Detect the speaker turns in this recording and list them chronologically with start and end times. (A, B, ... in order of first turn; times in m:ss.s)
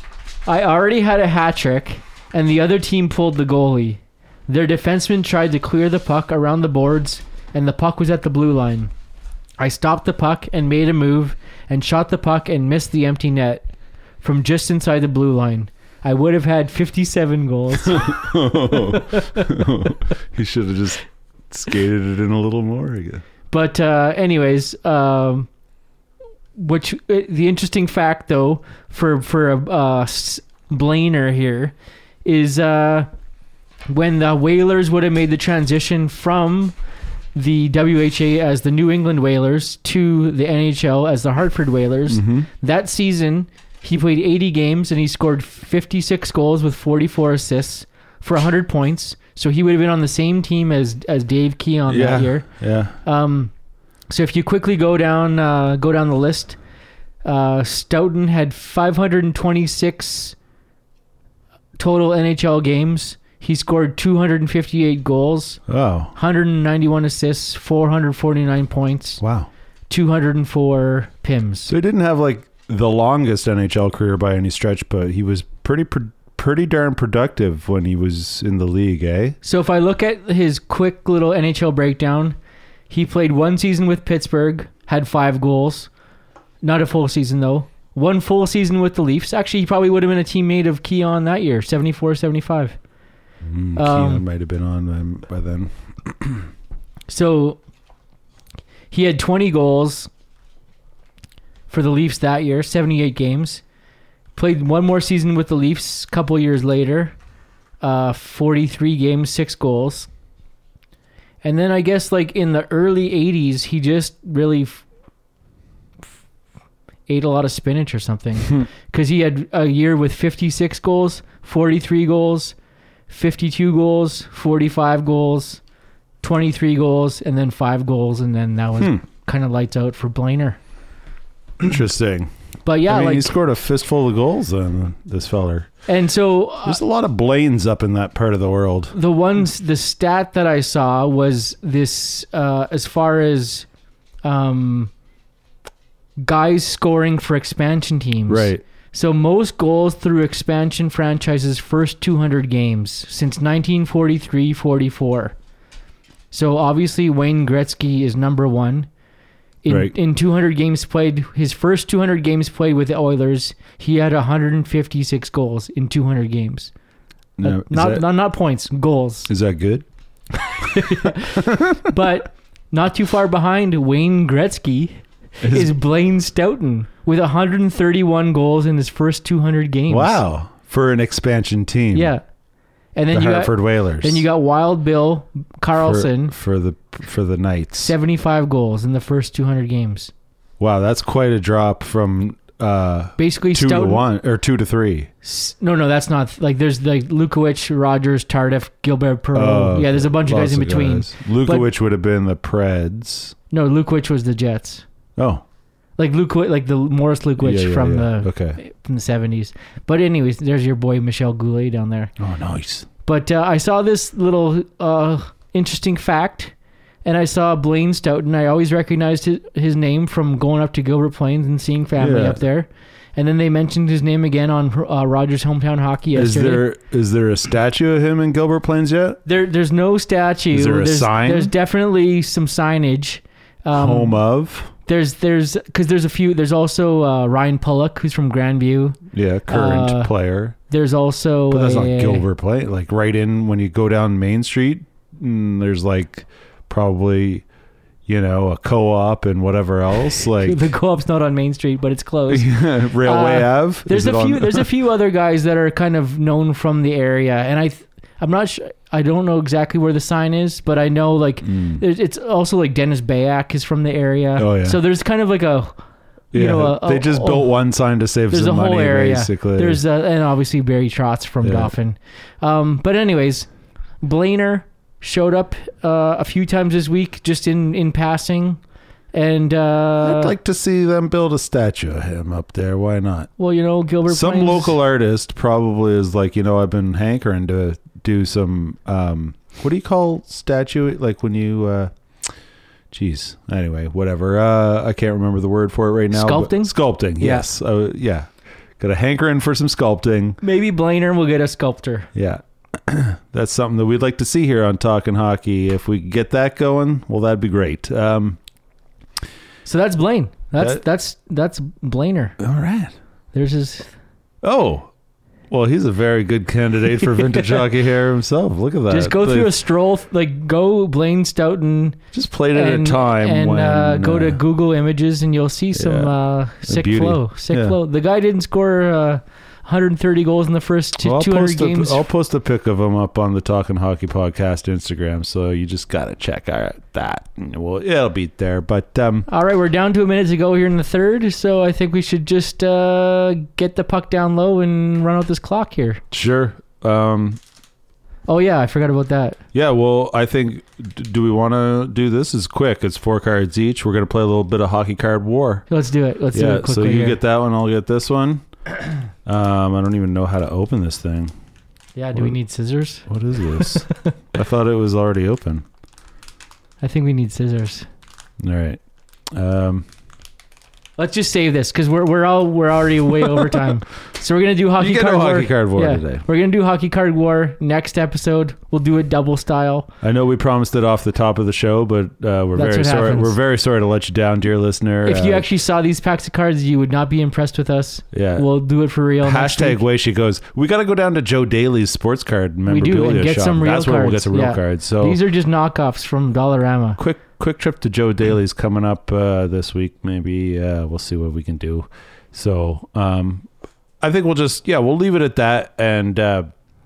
0:00.4-0:08.9 A
0:09.6-0:13.7 A
0:14.2-0:19.6 A
0:17.8-0:23.2 B
0:23.5-0:25.5 A
0:26.6-0:33.1 A
0:33.9-0:36.8 A
0:37.3-0:53.5 A
0:42.1-0:42.5 B
0:51.9-0:52.9 B
0:54.1-0:56.6 A
0:57.2-1:00.4 A
1:01.8-1:09.2 A
1:05.7-1:06.1 B
1:09.2-1:09.5 B
1:09.9-1:11.7 A
1:11.6-1:19.4 B
1:19.4-1:22.4 A
1:22.9-1:25.9 A
1:26.6-1:32.8 A
1:33.4-1:36.5 B
1:33.8-1:34.2 A
1:37.1-1:37.6 A
1:38.9-1:40.1 A
1:41.7-1:43.6 A
1:44.3-1:47.2 A
1:47.8-1:50.1 A
1:51.4-1:54.8 A
1:57.1-2:02.6 A
2:03.1-2:05.6 A
2:06.2-2:10.6 A
2:11.6-2:12.3 B
2:12.6-2:13.3 A
2:12.8-2:15.8 B
2:15.8-2:16.8 A
2:16.6-2:18.9 B
2:18.9-2:23.7 A
2:24.2-2:24.9 A
2:26.2-2:35.4 A
2:28.3-2:28.6 B
2:36.3-2:38.9 A
2:39.6-2:46.7 A
2:39.7-2:39.9 B
2:47.4-2:48.0 B
2:47.4-2:49.3 A
2:49.3-2:49.8 B
2:50.4-3:00.2 A
2:51.4-2:51.8 B
2:55.4-2:55.7 B
2:59.9-3:02.1 B
3:01.9-3:02.2 A
3:02.9-3:06.3 A
3:03.1-3:04.2 B
3:05.7-3:07.9 B
3:07.8-3:10.1 A
3:10.6-3:15.1 B
3:13.2-3:14.0 A
3:15.2-3:21.7 A
3:19.3-3:23.3 B
3:23.5-3:24.8 A
3:25.2-3:25.4 B
3:26.0-3:32.1 A
3:27.4-3:28.6 B
3:32.2-3:32.9 B
3:33.0-3:46.6 A
3:42.0-3:42.4 B
3:46.1-3:49.2 B
3:49.2-3:54.2 A
3:50.5-3:51.5 B
3:53.7-3:54.7 B
3:54.8-4:00.1 A
3:59.1-4:00.6 B
4:00.7-4:02.2 A
4:01.5-4:07.4 B
4:08.1-4:10.6 B
4:10.4-4:27.5 A
4:12.3-4:14.7 B
4:21.4-4:21.8 B
4:24.4-4:24.8 B
4:26.3-4:29.8 B
4:28.3-4:40.3 A
4:31.4-4:31.7 B
4:40.0-4:43.3 B
4:43.4-4:44.8 A
4:44.1-4:52.3 B
4:52.9-5:00.4 B
4:56.1-4:57.5 A
5:00.4-5:02.1 A
5:02.1-5:08.4 B
5:09.6-5:12.4 A
5:10.6-5:10.8 B
5:12.4-5:12.9 B
5:13.3-5:13.9 A
5:14.4-5:14.9 B
5:15.5-5:19.5 B
5:17.2-5:17.6 A
5:18.9-5:32.0 A
5:22.1-5:24.4 B
5:25.7-5:27.8 B
5:31.0-5:39.3 B
5:39.3-5:46.0 A
5:46.1-5:47.4 B
5:48.3-5:49.4 A
5:49.5-5:55.7 B
5:55.7-5:57.2 A
5:56.3-5:58.6 B
5:59.2-6:01.3 B
6:01.9-6:04.1 A
6:03.0-6:05.6 B
6:06.8-6:07.9 A
6:08.4-6:09.8 B
6:11.0-6:19.9 A
6:14.8-6:16.2 B
6:20.0-6:25.4 B
6:22.5-6:23.4 A
6:25.0-6:29.8 A
6:28.1-6:28.5 B
6:29.2-6:35.2 B
6:32.6-6:37.0 A
6:37.0-6:43.5 B
6:44.0-6:46.5 B